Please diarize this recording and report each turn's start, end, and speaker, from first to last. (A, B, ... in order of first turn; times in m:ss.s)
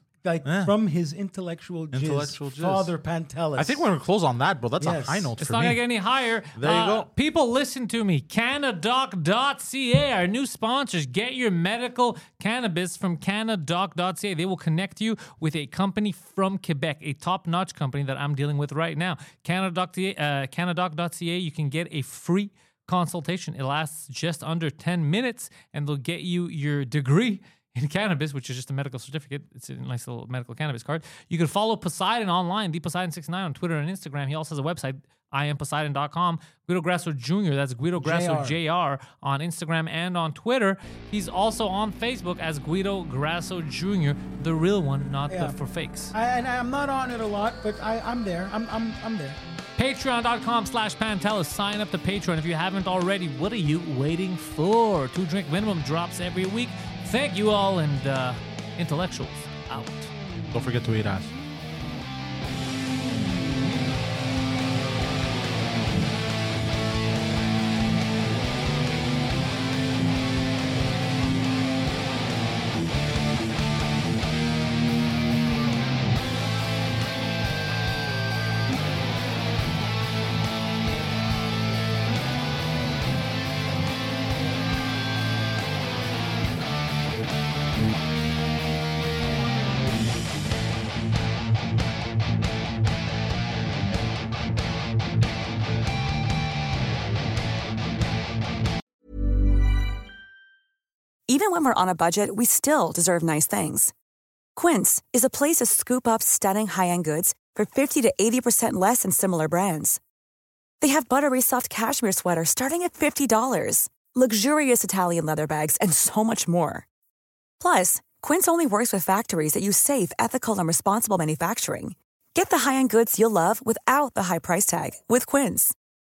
0:00.2-0:03.8 A
0:00.4-0:00.7 B
0:01.9-0:02.9 B
0:03.6-0:05.8 B
0:04.8-0:05.3 A
0:05.4-0:46.1 C
0:06.5-0:07.1 B
0:38.0-0:38.6 A
0:45.3-0:45.6 A
0:46.1-0:49.4 A
0:49.8-1:00.1 C
1:00.5-1:01.3 B
1:41.3-1:43.9 D
1:44.6-1:50.0 D
1:50.8-1:56.8 D
1:57.6-2:05.7 D